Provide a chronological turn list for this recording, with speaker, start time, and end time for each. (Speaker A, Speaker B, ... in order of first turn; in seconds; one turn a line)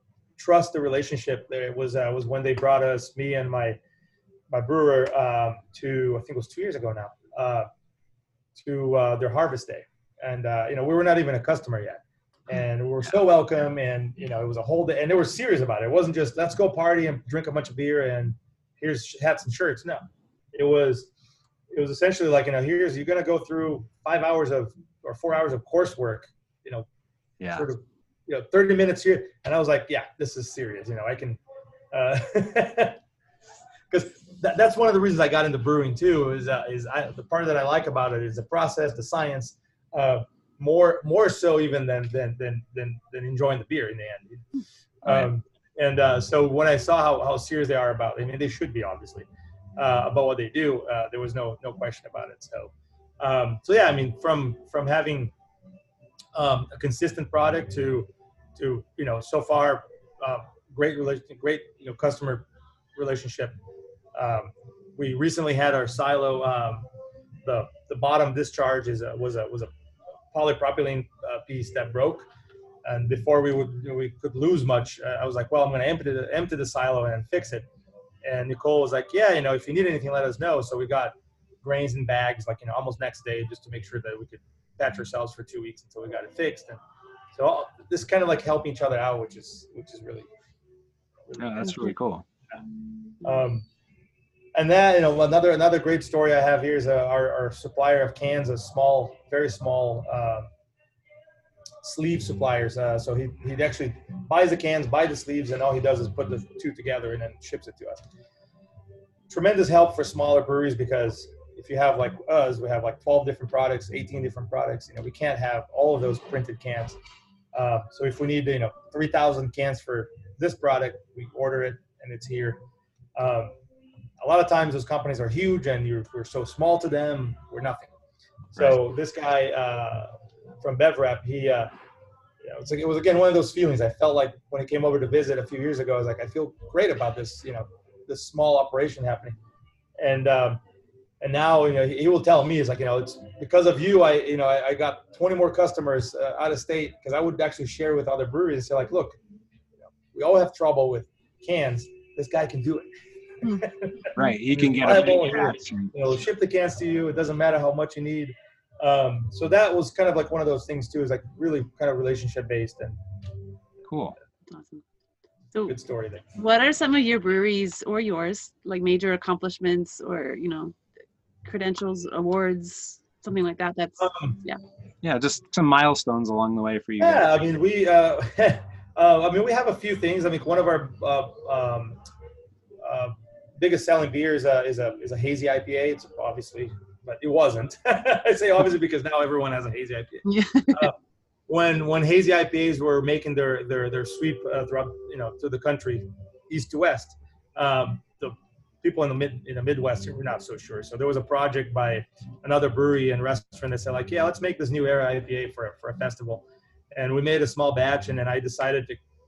Speaker A: 0.4-3.8
Speaker A: 4.5-7.7
Speaker A: 8.6-21.1
Speaker A: 21.7-26.9
Speaker B: 27.4-27.6
Speaker A: 27.5-31.4
Speaker A: 31.9-33.0
Speaker A: 33.9-44.5
Speaker A: 45.0-55.3
Speaker A: 56.3-63.5
Speaker A: 64.1-66.9
Speaker A: 67.4-69.7
Speaker A: 70.3-72.3
Speaker A: 72.8-77.6
Speaker A: 78.2-86.8
Speaker A: 87.3-90.3
Speaker A: 91.2-91.9
Speaker B: 91.4-92.2
Speaker A: 93.2-93.7
Speaker A: 94.5-100.5
Speaker A: 101.8-108.0
Speaker A: 109.3-117.0
Speaker A: 117.5-122.6
Speaker A: 123.2-123.5
Speaker A: 124.2-127.9
Speaker A: 128.5-131.7
Speaker B: 128.6-128.8
Speaker A: 132.4-139.3
Speaker A: 140.0-140.6
Speaker A: 141.2-149.2
Speaker A: 150.0-152.9
Speaker A: 153.4-162.9
Speaker B: 154.1-155.9
Speaker B: 163.9-164.2
Speaker C: 164.5-164.8
Speaker A: 165.7-166.2
Speaker C: 166.4-170.7
Speaker C: 171.4-174.6
Speaker A: 174.0-174.4
Speaker B: 175.0-177.4
Speaker A: 177.0-182.0
Speaker A: 182.8-190.9
Speaker C: 190.2-190.9
Speaker A: 191.5-209.0